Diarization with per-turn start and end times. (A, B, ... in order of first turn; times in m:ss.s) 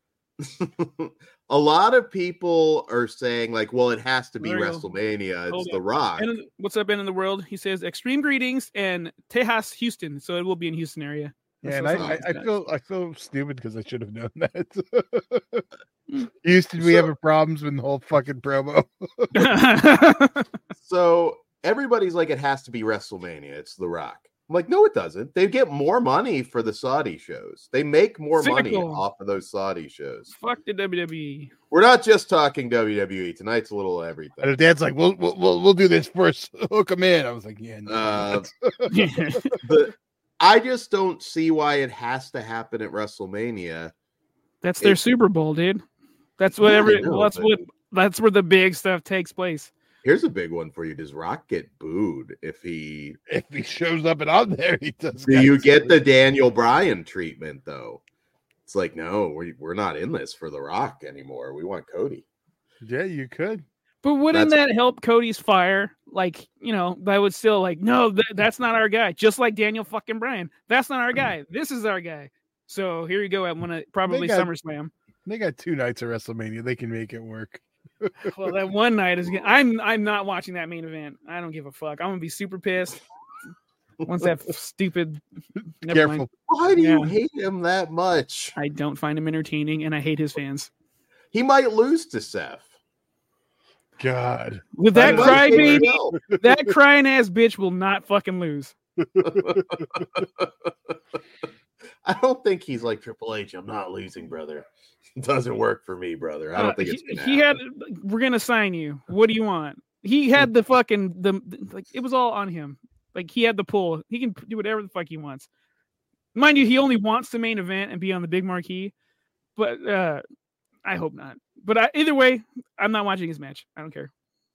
0:00.4-0:06.3 A
0:04.4-0:04.9 B
0:05.5-0:12.5 B
0:11.6-0:15.6 C
0:12.0-0:12.2 A
0:16.4-0:19.4 C
0:19.3-0:20.5 B
0:20.8-0:30.3 A
0:28.4-0:29.0 B
0:30.3-0:31.5 B
0:31.7-0:34.5 A
0:34.4-0:39.4 C
0:37.8-0:38.5 A
0:38.9-0:39.6 B
0:39.6-0:43.9 A
0:44.6-0:45.8 B
0:46.4-0:49.7 B
0:46.6-0:47.5 A
0:50.0-0:53.2 A
0:53.3-0:56.0 C
0:55.2-0:58.0 A
0:58.7-1:02.2 A
1:02.8-1:03.6 C
1:04.0-1:14.9 B
1:14.1-1:14.5 C
1:15.2-1:18.3 C
1:18.3-1:23.0 B
1:24.0-1:25.2 B
1:25.8-1:27.1 B
1:25.9-1:26.3 C
1:26.5-1:28.6 A
1:28.6-1:30.7 B
1:31.3-1:32.6 A
1:34.0-1:36.5 C
1:34.8-1:38.7 B
1:35.0-1:36.2 A
1:39.1-1:39.8 C
1:39.2-1:40.5 A
1:42.0-1:47.5 A
1:46.6-1:55.5 B
1:56.3-1:58.9 B
1:59.6-2:00.2 B
2:00.8-2:04.1 B